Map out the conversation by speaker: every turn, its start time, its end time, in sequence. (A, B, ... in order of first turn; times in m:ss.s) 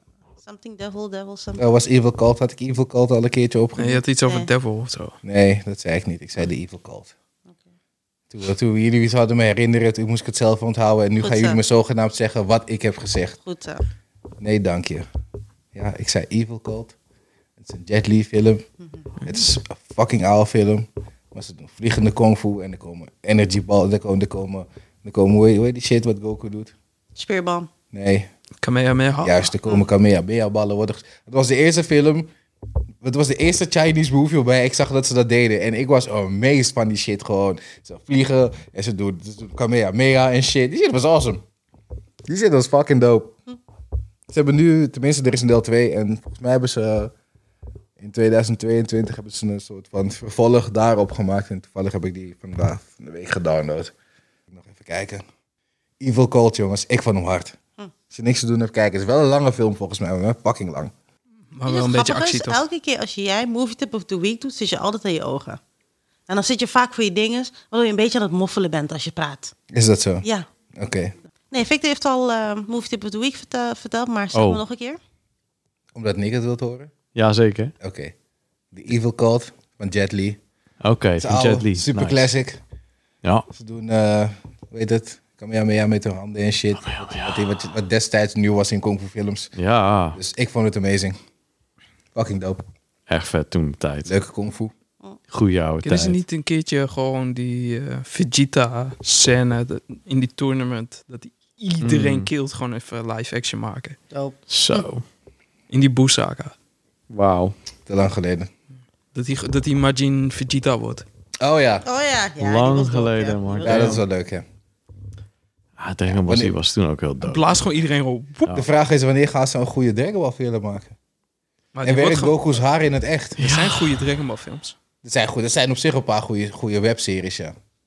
0:00.4-0:01.6 A
0:01.6-0:04.0 B
0:03.8-0:05.2 C
0:05.2-0:07.1 B
0:08.3-0:13.4 B
0:11.2-0:11.6 A
0:13.4-0:13.8 A
0:14.4-0:15.1 B
0:15.7-0:17.0 B
0:17.6-0:18.6 B
0:19.2-0:26.7 B
0:27.2-0:27.7 A
0:27.9-0:28.3 B
0:28.6-0:29.5 C
0:29.2-0:32.3 B
0:33.0-0:41.4 B
0:42.3-0:43.4 B
0:44.3-0:47.1 B
0:48.0-0:53.9 B
0:54.5-0:55.2 B
0:56.0-0:57.6 B
0:58.1-1:00.9 B
1:01.6-1:02.6 C
1:01.6-1:05.6 A
1:06.3-1:09.5 A
1:09.7-1:11.1 B
1:11.5-1:15.0 A
1:14.3-1:14.6 D
1:15.9-1:16.9 B
1:17.1-1:17.7 D
1:17.8-1:18.1 B
1:18.7-1:20.4 B
1:20.8-1:22.3 D
1:21.2-1:22.6 B
1:23.5-1:29.6 B
1:26.8-1:27.4 D
1:29.6-1:30.2 D
1:30.1-1:31.2 B
1:32.1-1:32.6 B
1:33.1-1:34.1 D
1:34.0-1:34.7 B
1:35.3-1:36.2 D
1:35.8-1:44.0 C
1:41.8-1:42.3 D
1:44.1-1:44.8 A
1:44.5-1:45.0 D
1:45.7-1:46.5 C
1:47.1-1:47.6 D
1:47.9-1:48.5 B
1:49.1-1:51.0 C
1:51.4-1:51.8 B
1:51.8-1:53.9 A
1:52.4-1:54.0 D
1:53.6-1:54.4 B
1:55.8-1:57.4 D
1:56.1-1:56.6 B
1:57.2-1:58.6 C
1:58.5-2:00.9 B
2:01.7-2:02.4 C
2:01.8-2:03.4 B
2:03.4-2:04.0 D
2:03.4-2:04.8 C
2:05.0-2:07.6 B